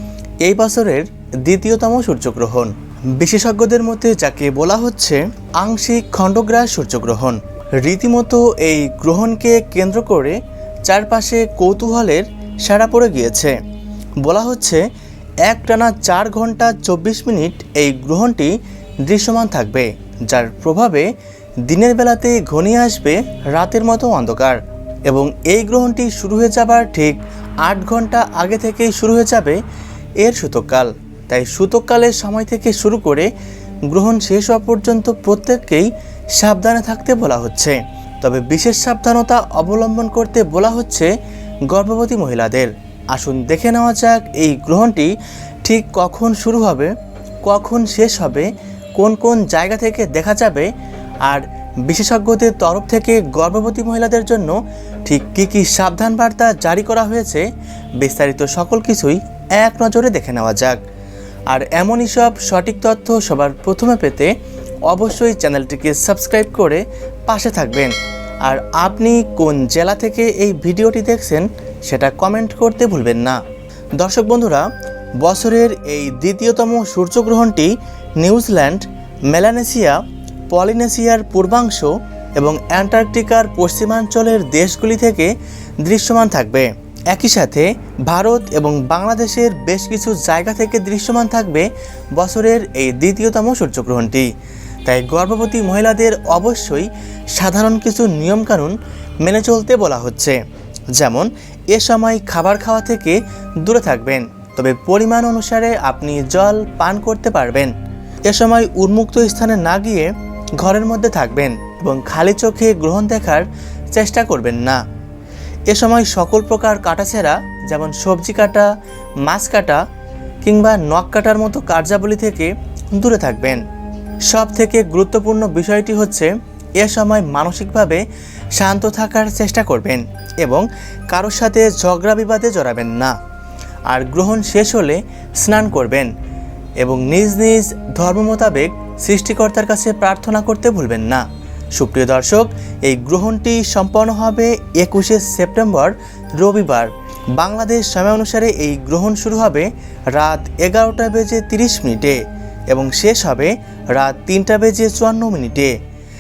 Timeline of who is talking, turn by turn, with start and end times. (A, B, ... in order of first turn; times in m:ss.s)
0:00.4-0:13.6 A
0:14.2-0:14.8 A
0:15.5-0:18.5 A
0:19.1-0:21.1 A
0:21.7-0:29.6 A
0:30.2-0:33.3 A
0:33.9-0:41.1 A
0:41.7-0:45.1 A
0:45.6-0:46.9 A
0:47.4-0:50.7 A
0:51.3-0:57.5 A
0:58.0-1:00.8 A
1:01.5-1:04.3 A
1:04.9-1:07.9 A
1:08.4-1:13.4 A
1:14.0-1:14.6 A
1:15.2-1:20.0 A
1:20.5-1:25.3 A
1:25.8-1:34.3 A
1:34.9-1:40.4 A
1:40.9-1:47.7 A
1:48.3-1:54.8 A
1:55.7-1:58.7 A
1:59.3-1:59.8 A
2:00.4-2:03.6 A
2:04.3-2:08.0 A
2:08.6-2:13.2 A
2:13.9-2:16.1 A
2:16.8-2:21.2 A
2:21.8-2:35.8 A